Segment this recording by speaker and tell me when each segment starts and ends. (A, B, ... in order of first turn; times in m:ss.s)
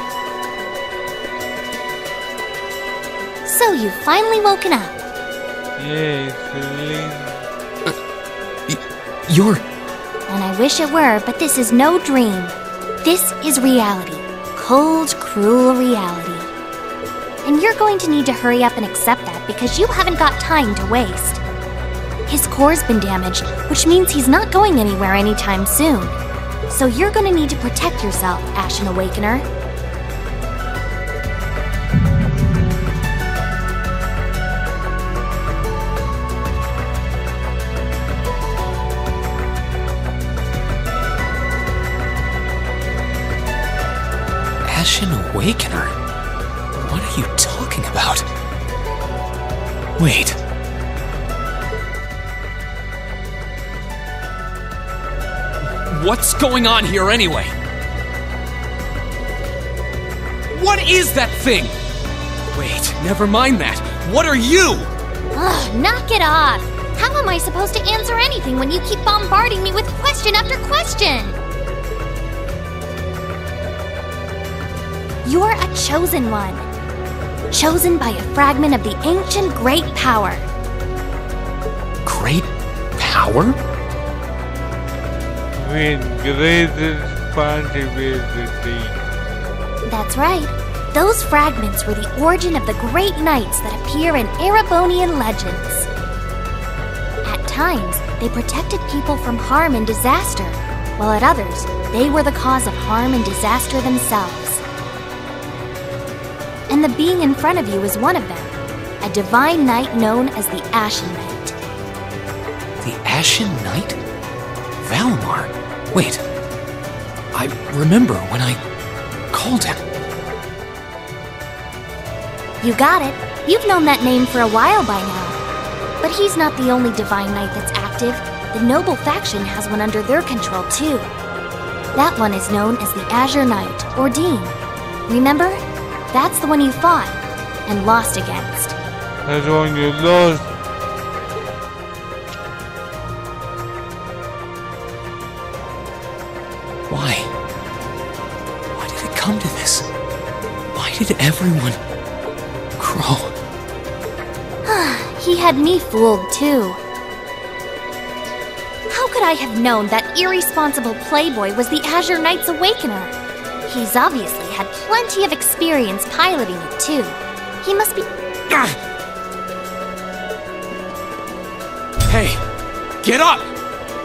0:03.4-0:05.0 A
0:05.8-0:07.4 B
0:08.7-0:09.6 C
0:10.3-0:16.5 A
0:17.4-0:21.4 A
0:22.3-0:26.2 A
0:26.7-0:29.5 A
0:44.6-0:46.0 C
0:46.7-0:48.3 C
0:50.0-0:50.4 C
0:55.6-0:57.6 C
1:00.5-1:01.8 C
1:02.5-1:04.9 C
1:05.3-1:11.4 A
1:15.2-1:16.7 A
1:17.5-1:20.5 A
1:22.0-1:23.6 C
1:25.5-1:29.0 B
1:29.9-1:35.9 A
1:37.2-1:44.6 A
1:46.7-1:51.6 A
1:52.8-1:54.0 C
1:54.8-1:56.2 C
1:57.3-1:58.6 C
1:59.3-1:59.8 C
2:02.6-2:05.4 A
2:06.0-2:11.1 A
2:12.0-2:14.6 A
2:15.1-2:15.6 A
2:16.1-2:18.8 A
2:19.3-2:20.5 B
2:26.9-2:27.3 C
2:28.7-2:29.9 C
2:30.7-2:31.8 C
2:32.8-2:33.4 C
2:34.6-2:36.8 A
2:38.9-2:43.1 A
2:43.7-2:48.1 A
2:48.5-2:48.8 C
2:52.1-2:52.4 C
2:53.0-2:53.5 C